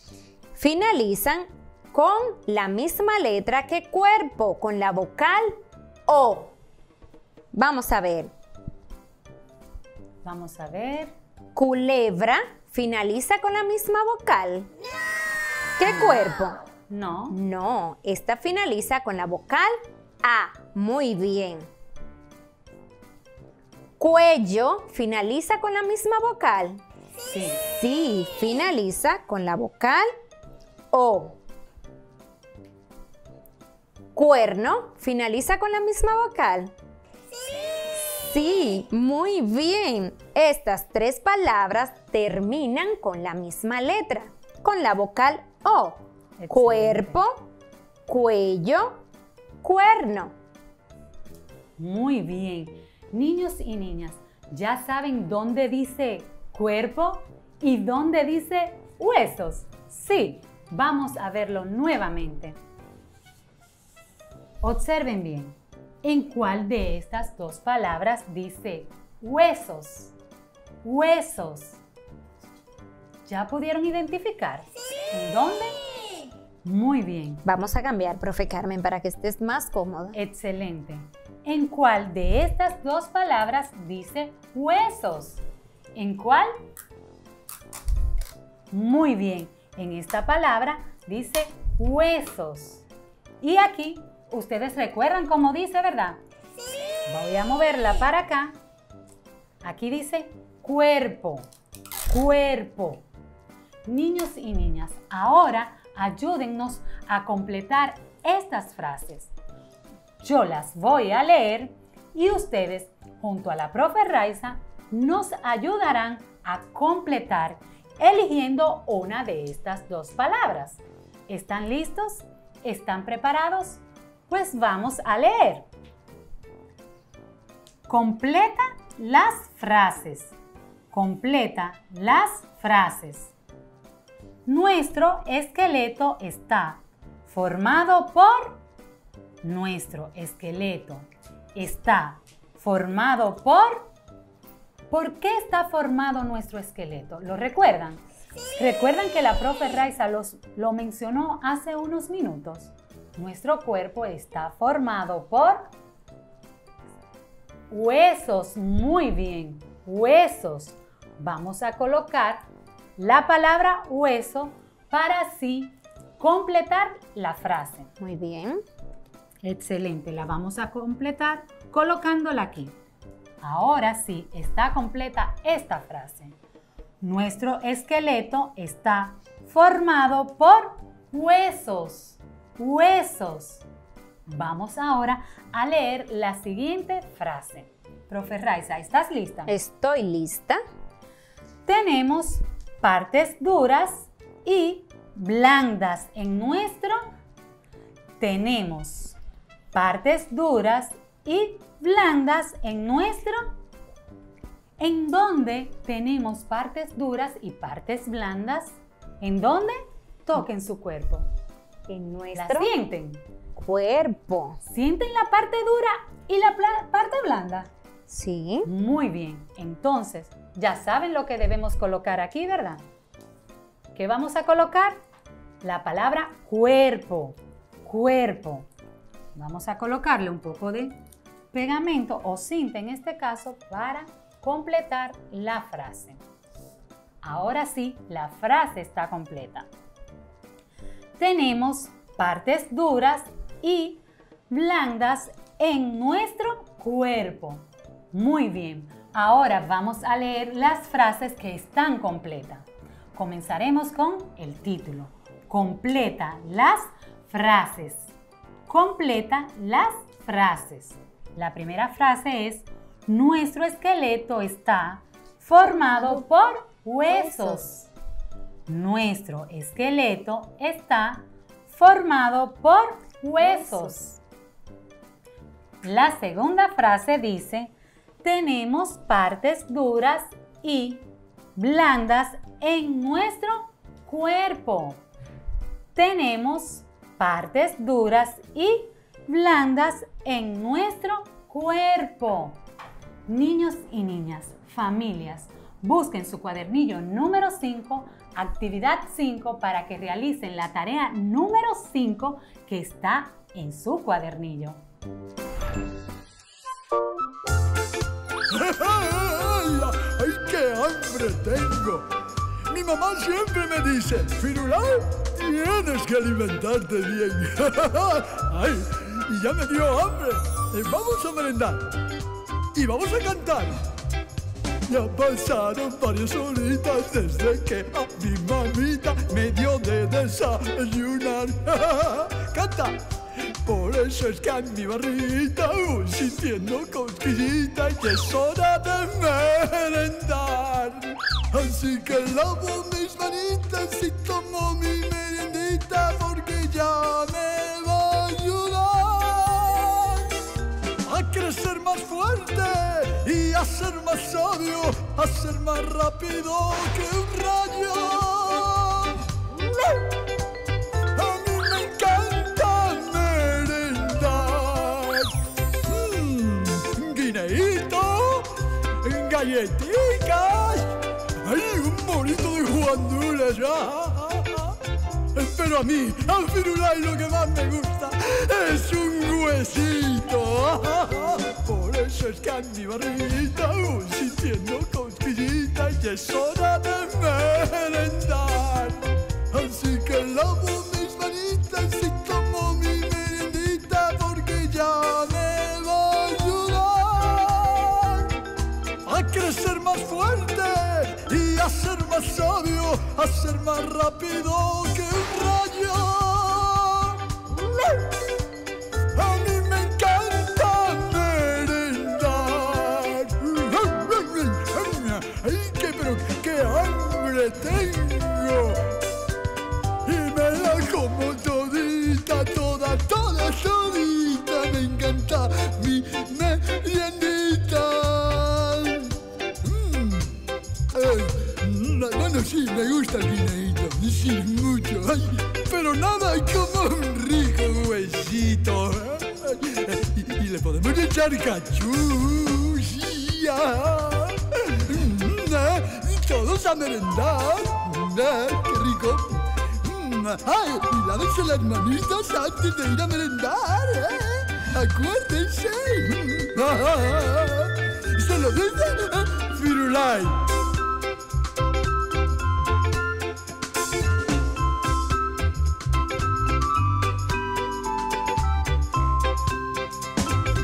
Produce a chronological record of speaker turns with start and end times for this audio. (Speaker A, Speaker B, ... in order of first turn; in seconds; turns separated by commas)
Speaker A: 0.6-6.5, Speaker A: 7.5-8.3, Speaker B: 10.2-11.1, Speaker A: 11.6-14.7, Speaker A: 15.8-16.6, Speaker B: 16.9-17.4, Speaker A: 17.3-21.7, Speaker A: 24.0-26.8, Speaker B: 27.3-27.6, Speaker A: 27.6-30.1, Speaker A: 30.9-31.4, Speaker A: 34.1-36.7, Speaker A: 37.9-47.5, Speaker B: 46.4-47.2, Speaker A: 48.1-49.0, Speaker A: 49.6-50.3, Speaker B: 51.8-62.6, Speaker B: 64.6-70.1, Speaker B: 70.8-71.8, Speaker B: 73.2-75.8, Speaker B: 76.6-77.4, Speaker A: 77.4-80.2, Speaker B: 80.1-85.4, Speaker B: 85.9-86.5, Speaker B: 88.7-92.8, Speaker B: 93.4-96.2, Speaker B: 97.1-98.6, Speaker B: 99.6-101.5, Speaker B: 102.1-103.0, Speaker B: 103.9-109.3, Speaker B: 110.2-125.7, Speaker B: 127.9-130.3, Speaker B: 130.9-133.3, Speaker B: 134.5-138.6, Speaker B: 139.4-143.9, Speaker B: 144.9-148.0, Speaker B: 148.6-155.7, Speaker B: 157.7-162.4, Speaker B: 163.0-167.9, Speaker A: 168.0-168.6, Speaker B: 169.4-172.8, Speaker B: 173.4-176.4, Speaker B: 177.0-183.6, Speaker B: 184.3-189.6, Speaker A: 189.5-190.6, Speaker B: 191.7-197.1, Speaker B: 198.2-199.2, Speaker B: 199.7-203.6, Speaker B: 204.8-211.2, Speaker A: 211.9-212.7, Speaker B: 212.3-213.2, Speaker A: 213.6-214.6, Speaker B: 214.6-217.7, Speaker A: 218.1-218.7, Speaker B: 218.6-222.8, Speaker B: 223.9-225.0, Speaker B: 225.6-228.7, Speaker B: 229.3-231.0, Speaker B: 231.5-236.2, Speaker B: 237.2-239.7, Speaker B: 241.2-258.1, Speaker B: 258.7-267.9, Speaker A: 265.9-266.2, Speaker A: 267.1-267.6, Speaker B: 268.7-274.2, Speaker A: 273.4-273.9, Speaker B: 275.8-285.0, Speaker B: 285.9-292.6, Speaker B: 293.3-304.8, Speaker C: 308.5-312.1, Speaker C: 312.7-321.8, Speaker C: 322.8-323.8, Speaker C: 324.9-333.0, Speaker C: 333.6-350.2, Speaker C: 351.1-359.2, Speaker C: 361.1-365.3, Speaker C: 365.9-368.5, Speaker C: 369.0-370.9, Speaker C: 371.4-374.7, Speaker C: 375.4-389.0, Speaker C: 389.5-398.3, Speaker C: 399.1-407.2, Speaker C: 409.1-418.8, Speaker C: 420.1-429.1, Speaker C: 429.6-430.3, Speaker C: 430.9-460.3